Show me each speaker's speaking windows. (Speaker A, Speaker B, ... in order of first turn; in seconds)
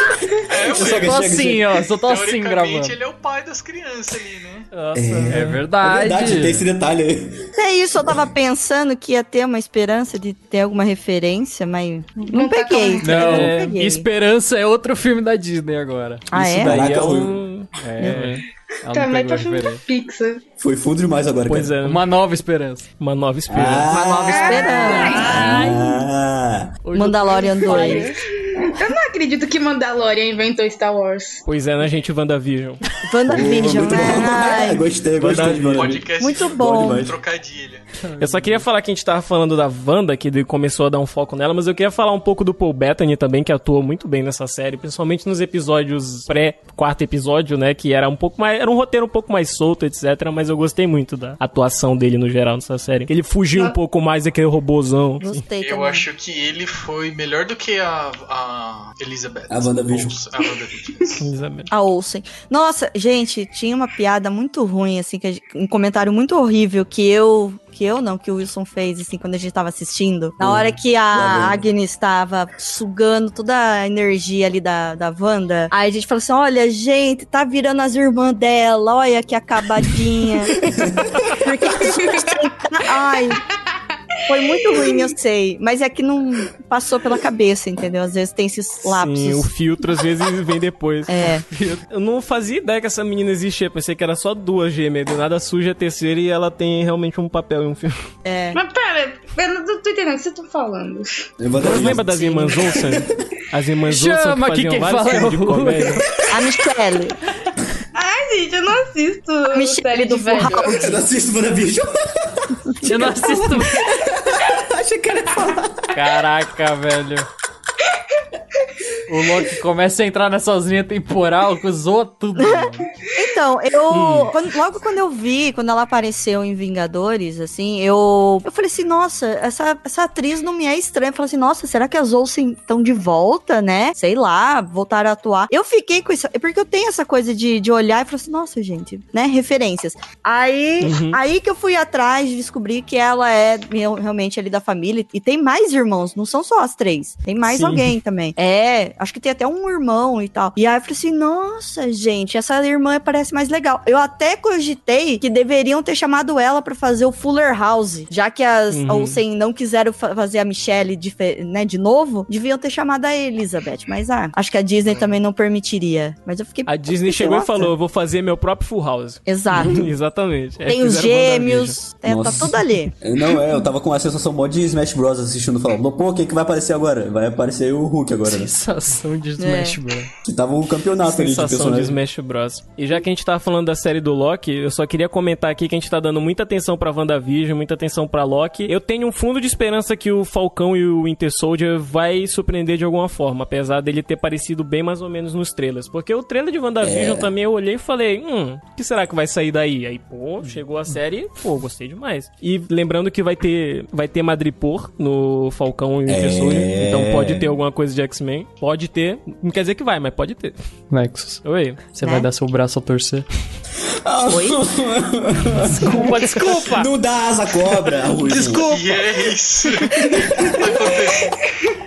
Speaker A: 0.3-1.7, 4.9-7.5, 16.6-17.4, 20.6-21.8, 23.5-26.7, 33.3-37.1, 59.5-60.2, 70.4-71.6, 80.7-81.3, 101.4-103.1, 110.6-116.0, 172.1-178.5, 180.2-182.0, 196.8-197.3, 206.1-207.5, 214.0-218.7, 220.0-220.7
Speaker B: 0.5-1.4, 2.0-4.7, 35.7-37.9, 55.6-61.2, 218.4-221.4
Speaker C: 0.8-3.0, 5.3-6.7, 13.0-16.3, 17.8-19.8, 21.8-22.9, 25.2-25.7, 26.9-28.1, 38.0-38.7, 91.5-91.8, 103.8-106.0, 112.8-113.9, 115.9-117.3, 119.1-122.9, 178.2-180.1, 210.9-213.2, 215.6-216.9, 218.2-218.9
Speaker D: 4.7-5.6, 13.1-13.7, 16.3-18.4, 21.5-22.0, 23.0-25.8, 27.5-28.1, 31.4-32.8, 33.3-34.5, 35.1-36.0, 38.2-55.4, 61.2-61.7, 88.9-98.0, 101.6-106.0, 123.9-124.3, 140.8-141.2, 147.5-147.9, 158.7-159.2, 166.7-171.8, 181.0-210.6, 211.4-211.8
Speaker E: 7.6-14.1, 16.3-16.8, 24.3-25.3, 26.9-28.1, 33.0-34.9, 36.2-37.1, 55.2-56.1, 61.7-80.5, 81.3-83.4, 84.3-89.5, 91.1-91.4, 98.2-98.6, 106.3-107.2, 109.5-111.0, 122.3-167.7, 169.3-169.9, 170.7-172.9, 179.4-179.8, 212.0-212.3, 214.3-214.6
Speaker F: 12.2-13.3, 18.9-20.4, 24.3-25.3, 27.8-31.4, 81.8-82.4, 84.6-85.1, 98.5-101.3, 107.9-111.0